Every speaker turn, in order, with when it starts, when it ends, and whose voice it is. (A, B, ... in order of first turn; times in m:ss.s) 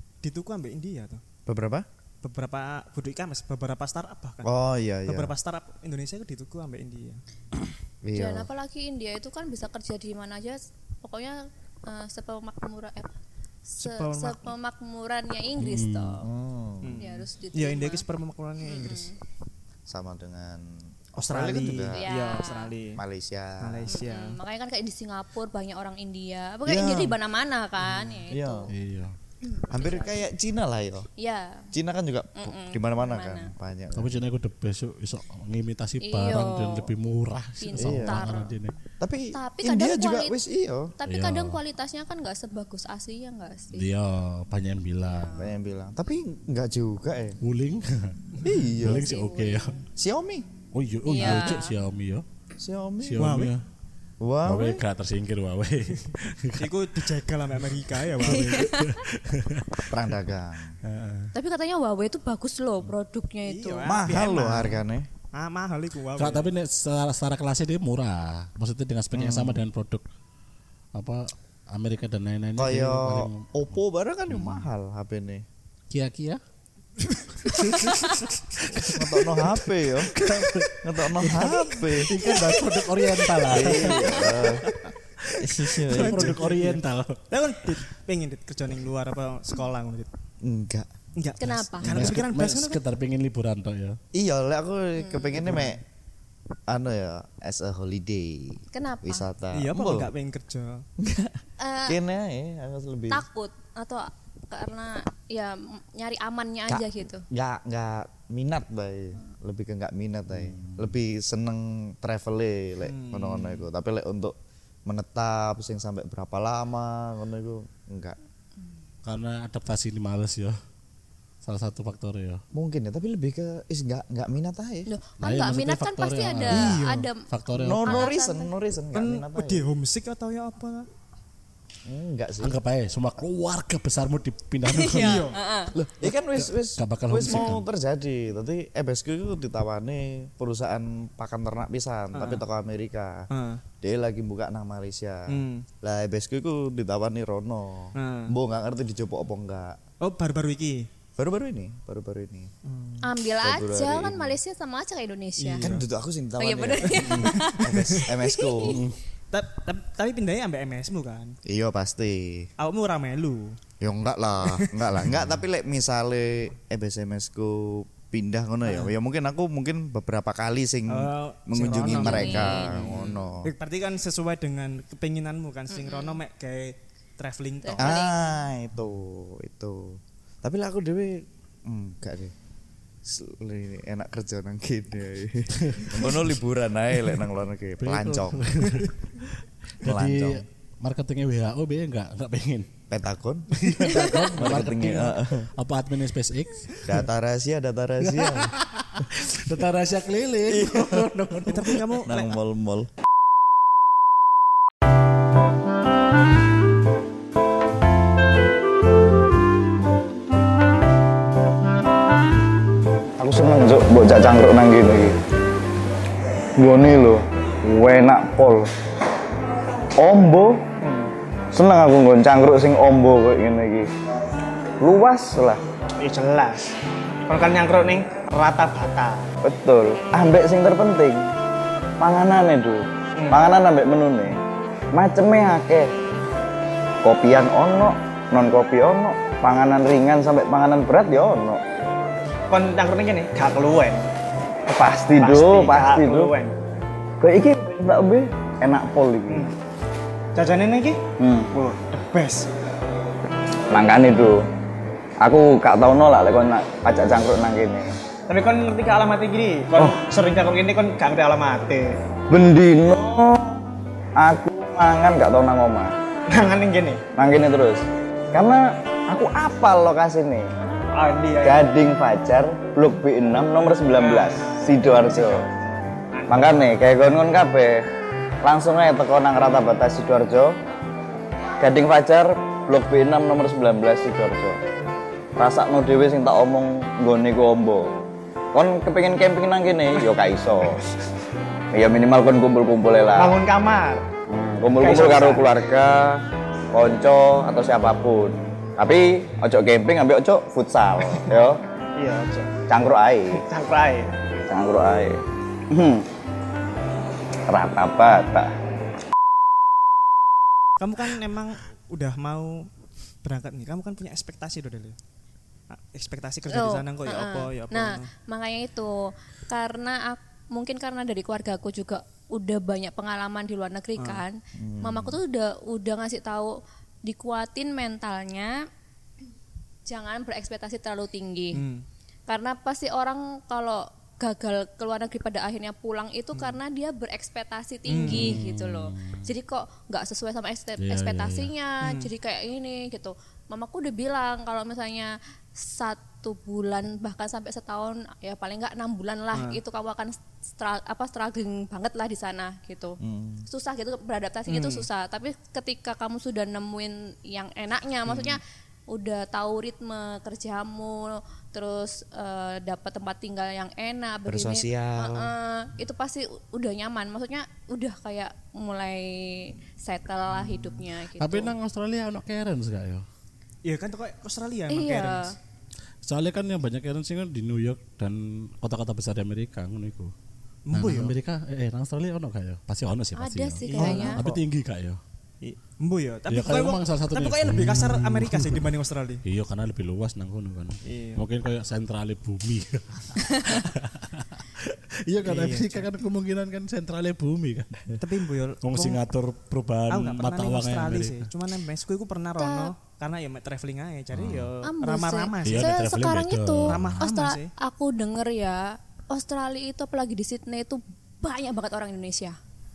0:00.2-0:01.2 A
0:01.5-0:01.9 B
0:02.2-0:04.5 A
0:04.4-0:05.3 B
0:05.1-0:07.2 A
0:08.0-0:08.5 B
0:08.1-0:13.2 C
0:13.7-0:16.2 C
0:13.8-0:14.5 A
0:15.6-0:16.2 D
0:16.2-0:17.0 B
0:16.8-0:19.1 A
0:17.0-0:18.0 C
0:18.7-0:19.2 C
0:19.9-0:22.0 B
0:21.2-0:23.0 A
0:21.9-0:22.7 C
0:23.0-0:23.9 B
0:23.6-0:24.4 A
0:23.9-0:28.7 C
0:26.6-0:27.2 B
0:28.3-0:28.7 B
0:28.7-0:29.1 D
0:29.4-0:30.2 C
0:29.7-0:31.1 B
0:31.2-0:31.7 C
0:31.7-0:34.2 B
0:32.4-0:33.5 C
0:34.0-0:38.8 D
0:36.0-0:36.9 C
0:37.6-0:38.5 C
0:37.8-0:38.2 B
0:39.0-0:41.0 B
0:39.3-0:40.4 C
0:41.0-0:43.9 C
0:41.1-0:41.6 D
0:43.7-0:45.4 D
0:45.0-0:45.5 C
0:45.4-0:47.4 B
0:47.4-0:48.2 D
0:48.4-0:49.1 B
0:48.7-0:49.8 D
0:48.8-0:49.8 C
0:49.9-0:50.5 B
0:50.7-0:52.2 D
0:51.0-0:51.8 C
0:52.6-0:53.4 B
0:53.0-0:53.6 D
0:53.2-0:53.5 A
0:54.2-0:54.8 B
0:54.5-0:57.0 D
0:56.0-0:58.7 A
0:58.0-1:00.0 D
0:58.2-0:59.0 C
0:59.9-1:00.8 B
1:00.8-1:01.3 D
1:01.3-1:04.1 C
1:03.4-1:04.8 A
1:03.9-1:05.1 B
1:05.3-1:06.5 A
1:06.2-1:10.0 D
1:09.1-1:09.6 B
1:11.0-1:13.5 D
1:12.6-1:15.4 B
1:14.3-1:14.7 D
1:15.9-1:16.4 D
1:17.0-1:18.0 A
1:17.5-1:27.8 D
1:18.9-1:20.2 B
1:20.8-1:22.1 B
1:23.5-1:24.7 B
1:23.7-1:24.3 C
1:25.4-1:26.4 B
1:25.9-1:26.8 A
1:27.3-1:30.1 A
1:30.4-1:30.9 B
1:31.2-1:32.8 A
1:31.4-1:32.2 C
1:31.8-1:34.0 D
1:34.1-1:35.8 B
1:35.0-1:35.4 C
1:35.4-1:35.8 A
1:36.7-1:40.1 B
1:38.7-1:39.3 C
1:39.5-1:40.8 A
1:41.0-1:43.2 B
1:41.6-1:42.0 C
1:43.1-1:47.3 C
1:46.7-1:54.4 B
1:50.4-1:50.9 D
1:52.8-1:53.7 A
1:54.9-1:58.2 B
1:59.0-2:00.6 D
2:01.4-2:02.4 D
2:02.5-2:04.9 B
2:04.9-2:08.5 C
2:05.2-2:08.1 D
2:06.5-2:07.1 A
2:07.6-2:09.6 B
2:08.9-2:10.9 A
2:11.9-2:12.6 B
2:12.4-2:15.3 D
2:14.7-2:15.7 C
2:14.9-2:15.4 A
2:15.8-2:23.3 B
2:16.0-2:17.7 D
2:22.1-2:22.4 A
2:23.3-2:23.6 A
2:23.8-2:29.8 B
2:25.3-2:25.7 A
2:28.0-2:28.4 A
2:30.0-2:30.9 A
2:31.2-2:34.4 B
2:33.0-2:35.7 C
2:35.4-2:35.9 A
2:35.6-2:38.8 B
2:36.4-2:38.8 C
2:37.2-2:38.0 A
2:38.7-2:39.0 D
2:39.3-2:41.4 A
2:41.5-2:42.5 B
2:42.6-2:43.6 A
2:43.8-2:53.5 B
2:48.6-2:48.9 A
2:50.9-2:57.9 A
2:51.8-2:53.2 C
2:55.7-2:56.2 C
2:57.6-2:58.3 C
2:57.8-3:02.3 B
3:03.0-3:08.7 B
3:05.6-3:06.2 D
3:07.8-3:09.3 D
3:09.8-3:12.7 D
3:09.8-3:10.4 B
3:12.9-3:15.5 B
3:13.6-3:17.0 D
3:16.8-3:18.5 B
3:18.0-3:21.8 D
3:20.5-3:21.1 B
3:21.5-3:22.4 A
3:21.7-3:22.9 B
3:33.2-3:35.2 E
3:36.6-3:38.7 E
3:40.0-3:40.7 E
3:40.8-3:41.1 F
3:41.5-3:43.9 E
3:44.8-3:45.6 E
3:46.0-3:46.7 F
3:47.3-3:49.3 F
3:49.4-3:51.3 E
3:52.0-3:54.4 E
3:53.2-3:53.4 F
3:54.9-3:55.9 E
3:57.0-4:01.6 E
4:02.5-4:04.1 F
4:04.7-4:06.3 E
4:05.1-4:06.6 F
4:07.2-4:09.5 E
4:10.4-4:11.0 F
4:11.2-4:11.5 E
4:11.5-4:12.5 F
4:13.7-4:14.4 E
4:15.2-4:18.0 E
4:18.3-4:22.0 F
4:22.3-4:23.5 E
4:24.2-4:26.0 E
4:26.3-4:27.0 F
4:27.2-4:30.5 E
4:30.9-4:31.7 F
4:31.4-4:35.4 E
4:34.0-4:35.4 F
4:36.2-4:36.7 F
4:36.3-4:37.9 E
4:38.4-4:40.6 E
4:41.6-4:44.6 E
4:45.4-4:47.9 E
4:48.5-4:50.8 E
4:51.7-4:53.4 E
4:53.1-4:54.0 F
4:54.3-4:56.2 E
4:54.8-4:55.5 F
4:56.7-5:01.6 E
5:02.0-5:02.5 F
5:02.7-5:03.4 E
5:03.4-5:04.2 F
5:04.5-5:06.1 E
5:07.5-5:08.5 E
5:10.8-5:12.7 A
5:13.2-5:15.0 A
5:15.7-5:18.1 A
5:16.5-5:28.6 C
5:24.0-5:24.2 A
5:24.6-5:25.2 B
5:29.9-5:31.6 C
5:31.5-5:31.8 A
5:32.3-6:11.6 C
5:37.9-5:38.4 A
5:38.0-5:39.3 D
5:40.8-5:41.5 D
5:41.8-5:42.1 A
5:49.3-5:49.6 A
5:53.0-5:53.5 B
5:54.5-5:54.9 A
5:58.1-5:58.4 A
6:04.3-6:05.3 B
6:11.2-6:13.0 D
6:13.6-6:15.3 A
6:14.7-6:15.4 C
6:16.0-6:20.1 D
6:20.7-6:21.2 A
6:20.7-6:25.0 D
6:23.2-6:24.2 C
6:23.7-6:24.4 A
6:23.8-6:24.4 B
6:25.4-6:29.2 A
6:26.3-6:28.7 D
6:29.2-6:38.0 D
6:30.9-6:31.2 A
6:33.3-6:33.6 C
6:35.2-6:35.9 A
6:38.0-6:39.0 A
6:38.6-6:41.3 D
6:39.9-6:45.7 A
6:42.4-6:42.7 C
6:44.1-6:44.5 D
6:44.6-6:52.4 C
6:45.4-6:47.0 D
6:46.7-6:47.5 A